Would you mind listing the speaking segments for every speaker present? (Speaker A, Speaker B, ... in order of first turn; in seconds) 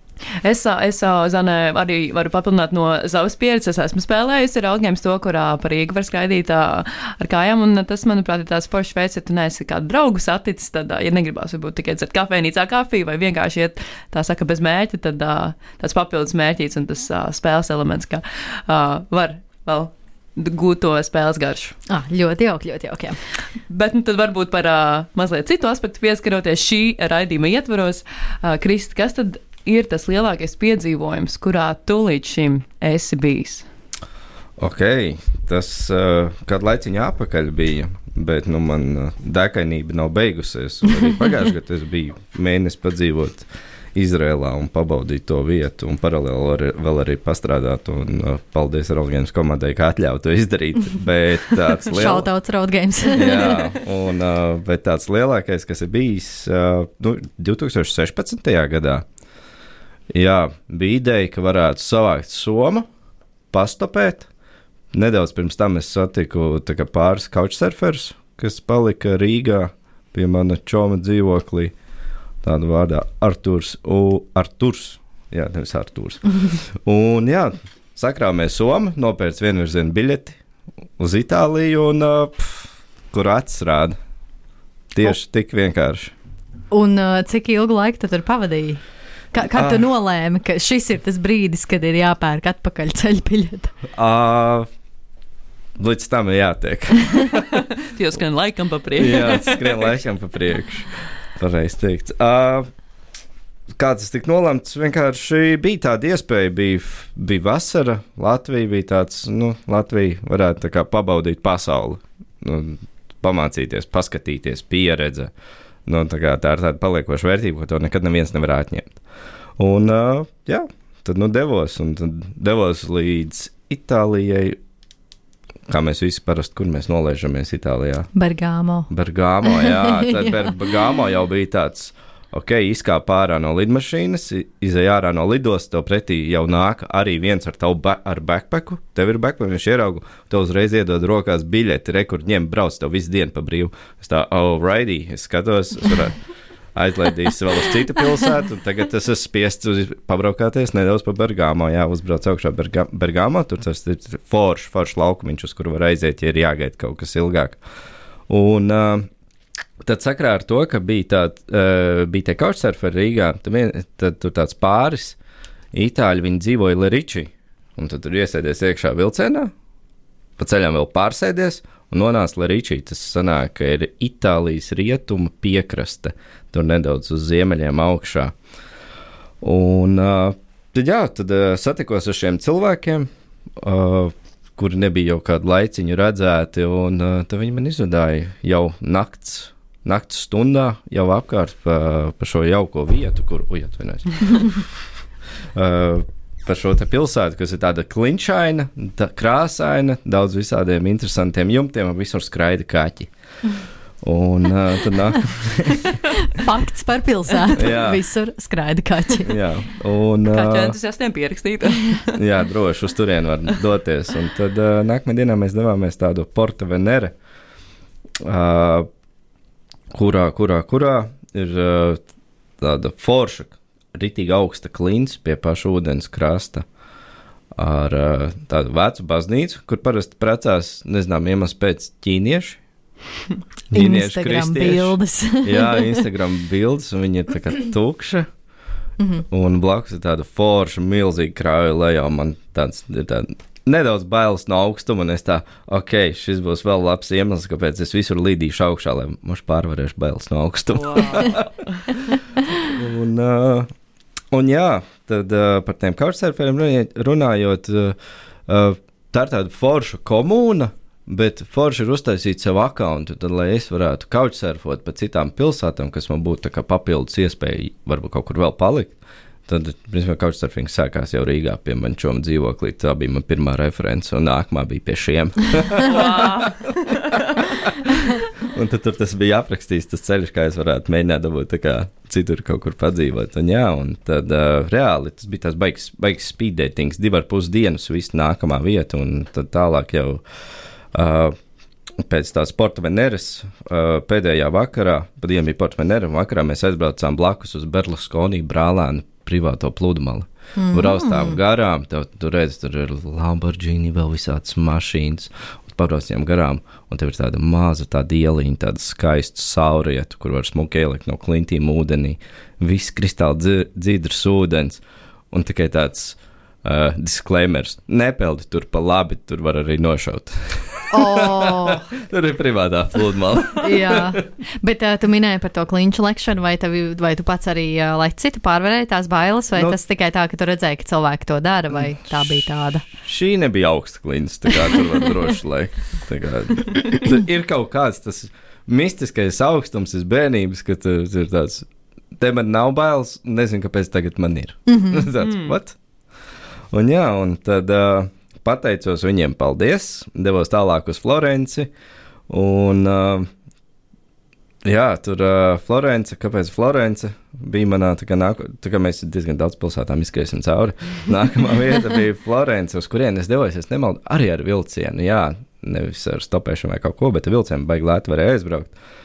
Speaker A: 0.4-21.8, 23.7-33.7, 97.8-99.9, 210.3-212.2, 250.7-252.0, 275.9-277.2, 345.2-345.5
Speaker B: 21.9-23.2, 51.9-53.6, 86.7-88.8, 89.3-93.7, 128.1-128.9, 129.5-130.4, 205.8-209.4, 233.7-236.0, 239.0-239.2, 300.6-301.4, 320.9-321.9, 323.6-332.9, 344.7-345.1
Speaker C: 34.6-52.3, 53.1-59.0, 60.1-62.9, 63.5-64.3, 64.9-71.7, 72.4-80.4, 81.0-84.0, 84.9-86.1, 89.5-89.8, 93.9-94.7, 95.8-97.7, 99.0-102.7, 103.8-115.3, 115.9-119.0, 119.6-124.6, 125.7-128.1, 128.9-146.2, 146.8-157.6, 158.3-159.1, 159.8-165.2, 165.7-169.5, 170.4-178.3, 179.4-194.7, 195.5-203.1, 204.0-206.0, 207.5-208.0, 209.2-210.8, 212.1-217.1, 218.2-218.9, 219.9-222.0, 222.6-226.7, 227.6-232.6, 233.7-238.3, 239.3-251.5, 252.5-253.7, 254.3-258.0, 258.5-269.0, 269.5-290.2, 290.9-291.4, 292.0-324.2, 333.0-345.8, 346.7-351.7, 352.3-353.3, 354.6-368.7